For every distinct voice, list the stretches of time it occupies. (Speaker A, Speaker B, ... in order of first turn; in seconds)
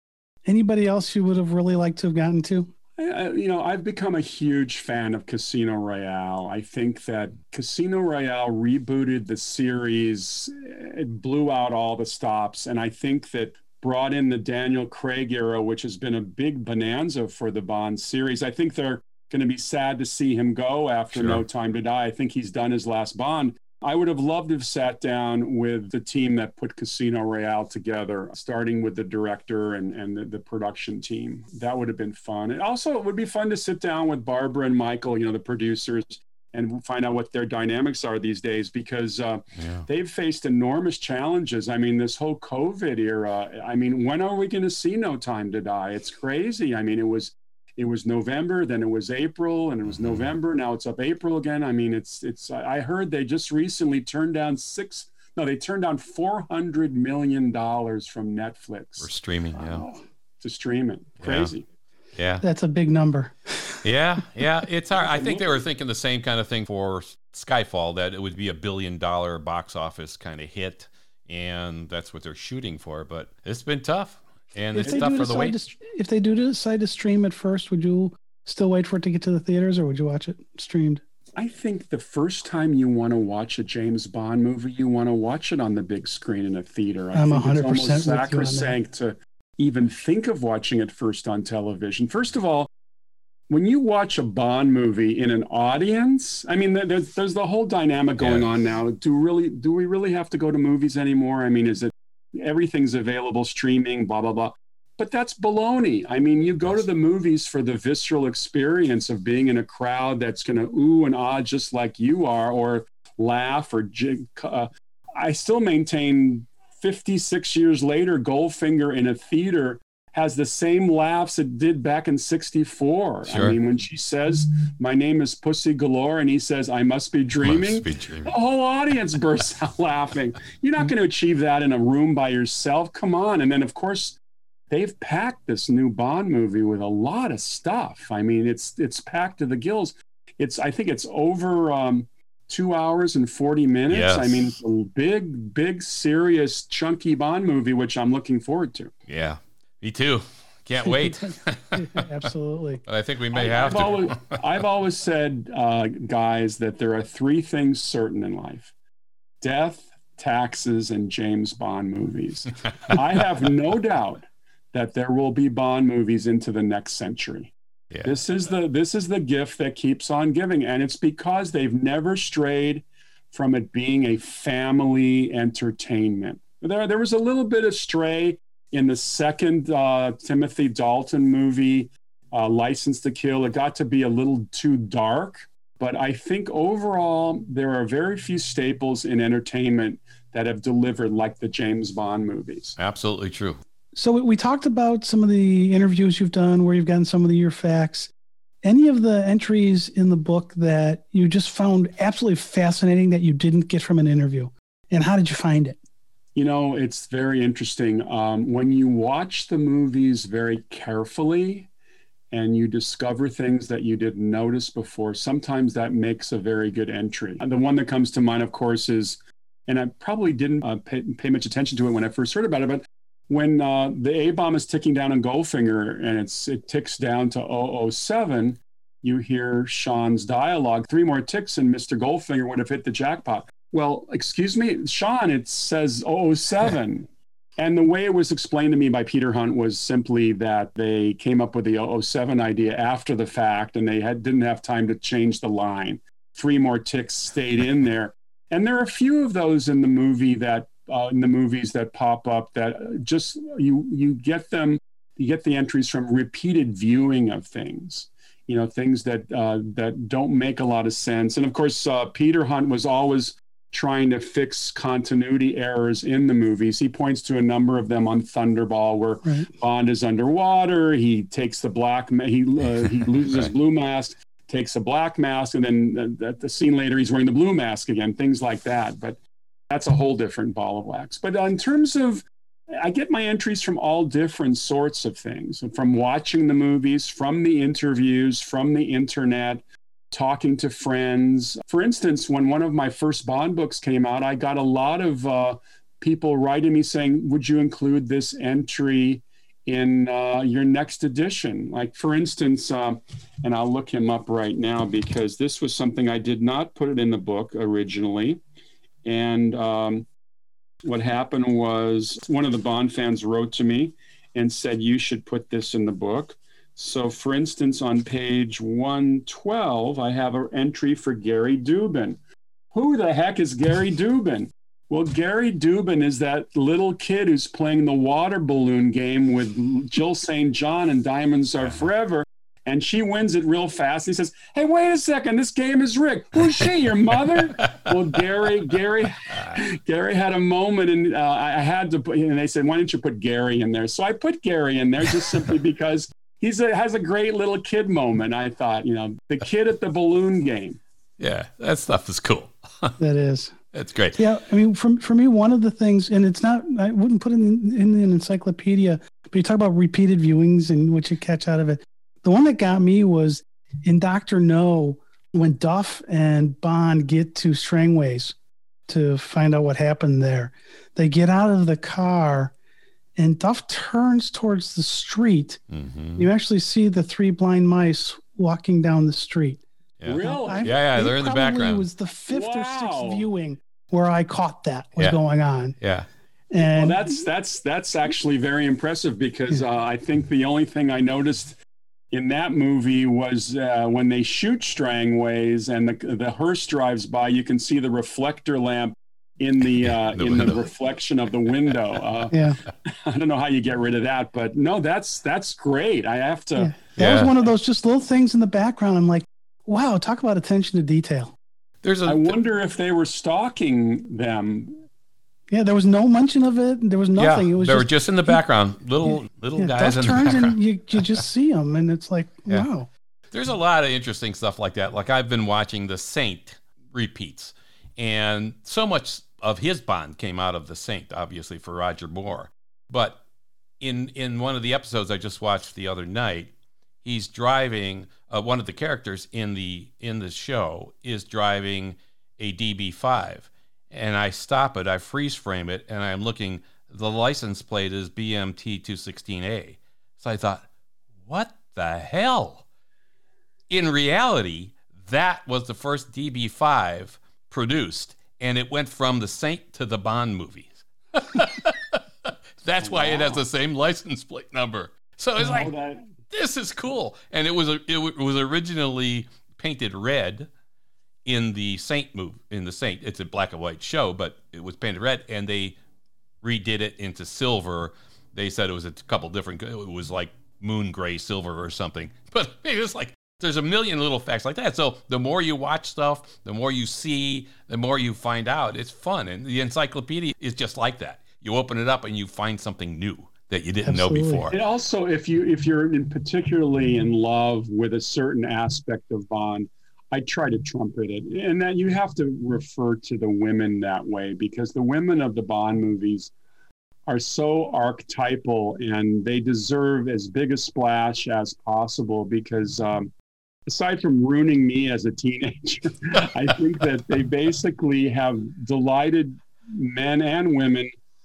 Speaker A: 0.5-2.7, 62.4-63.8, 74.7-81.0, 87.1-88.8, 150.9-152.8, 193.9-198.1, 198.6-205.8, 353.0-353.5, 354.2-368.3, 368.9-372.5, 373.1-375.6, 376.2-379.6, 380.2-385.7, 386.5-387.1, 402.3-402.6, 406.6-411.3, 415.5-418.4, 419.0-422.9, 493.8-494.5
Speaker B: 3.0-59.1, 60.4-61.6, 64.9-65.6, 74.8-75.1, 81.3-92.7, 93.5-134.2, 134.7-148.9, 153.3-158.7, 159.4-167.5, 168.0-192.8, 206.3-211.7, 212.3-279.2, 279.7-308.4, 309.0-310.1, 310.8-322.2, 322.7-350.8, 380.1-380.7, 382.3-383.3, 386.6-391.6, 392.1-406.8, 412.1-414.8, 462.8-463.4, 465.4-466.1, 494.5-506.3, 507.1-513.1, 513.7-520.9
Speaker C: 21.1-21.4, 39.6-39.8, 59.0-59.9, 61.2-61.5, 62.1-62.4, 63.8-75.5, 98.2-98.5, 123.3-123.6, 127.4-128.3, 143.9-144.5, 149.1-152.1, 152.8-154.4, 192.8-193.6, 351.2-352.9, 353.7-354.2, 375.7-376.3, 380.0-381.9, 385.8-386.1, 400.1-400.6, 407.0-407.3, 411.8-412.3, 417.1-421.2, 423.3-433.2, 433.8-436.5, 437.0-450.6, 451.2-452.6, 453.7-465.7, 466.3-470.5, 471.2-475.8, 476.4-494.6